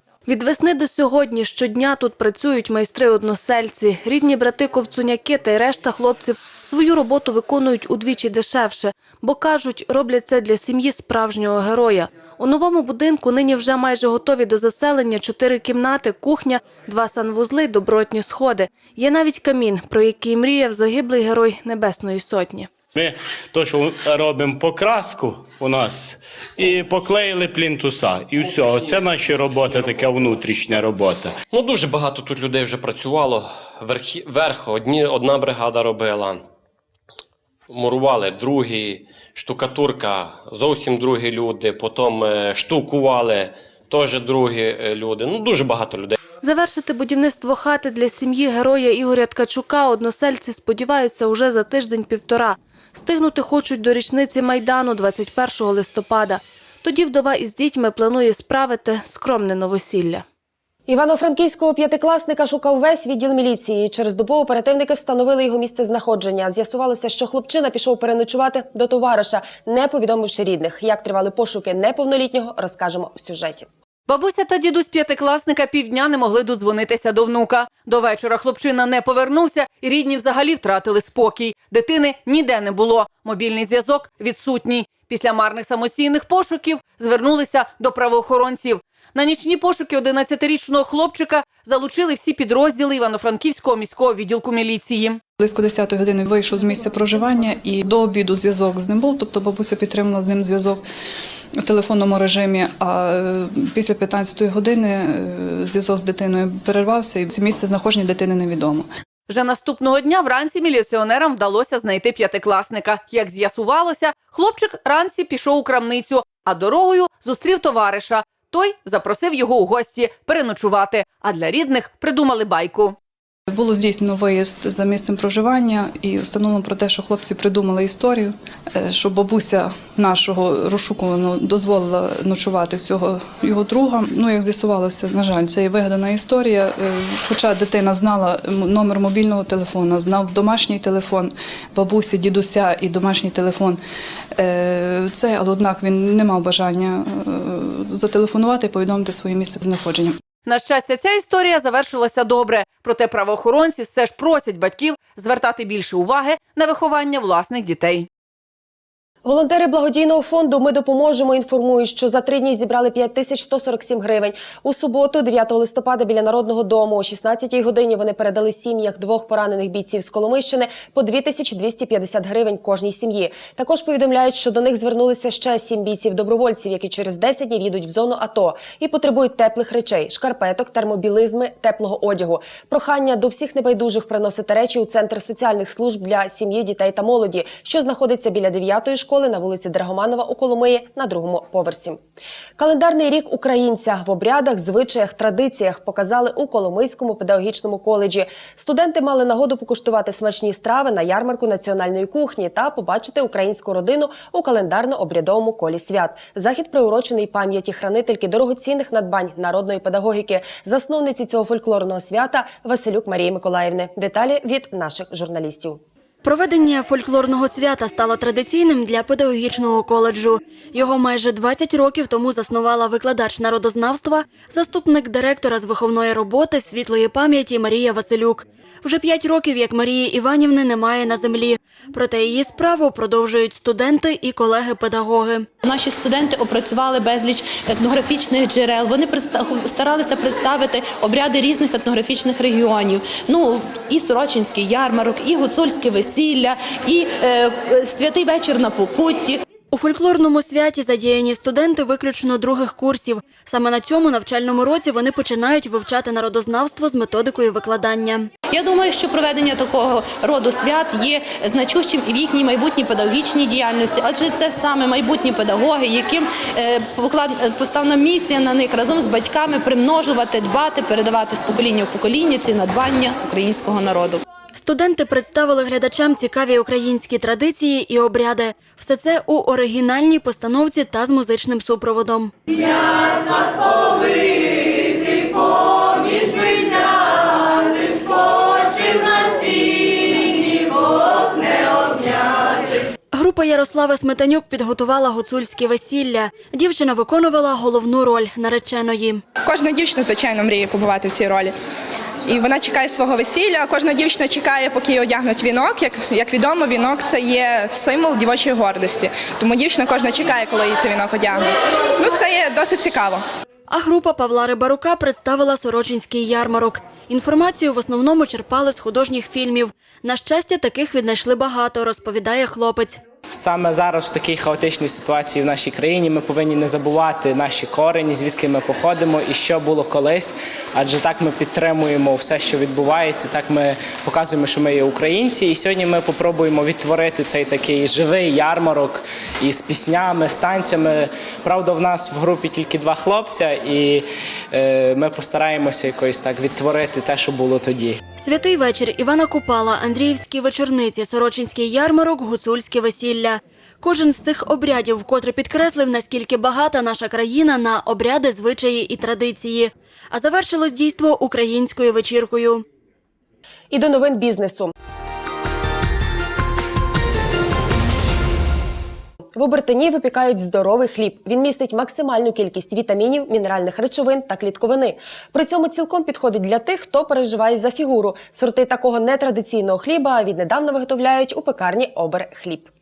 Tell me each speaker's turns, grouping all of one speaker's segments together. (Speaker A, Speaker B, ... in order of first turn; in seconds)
Speaker A: 0.2-22.7, 46.4-60.2
Speaker B: 22.9-31.3
Speaker C: 31.5-36.4, 37.7-46.1
Speaker D: 60.9-73.7, 159.2-192.0, 192.6-215.8, 363.7-364.7, 369.3-382.7
Speaker E: 74.1-95.2, 109.3-123.0, 150.4-158.1
Speaker F: 95.4-100.8, 101.6-108.8, 123.5-143.8, 144.4-150.2
Speaker G: 216.2-235.5, 249.7-258.3, 274.5-282.3, 293.1-299.2, 313.7-323.0, 348.2-362.6
Speaker H: 235.6-249.4, 258.5-274.2
Speaker I: 299.4-301.5, 302.3-311.5, 312.0-313.2
Speaker J: 323.3-348.0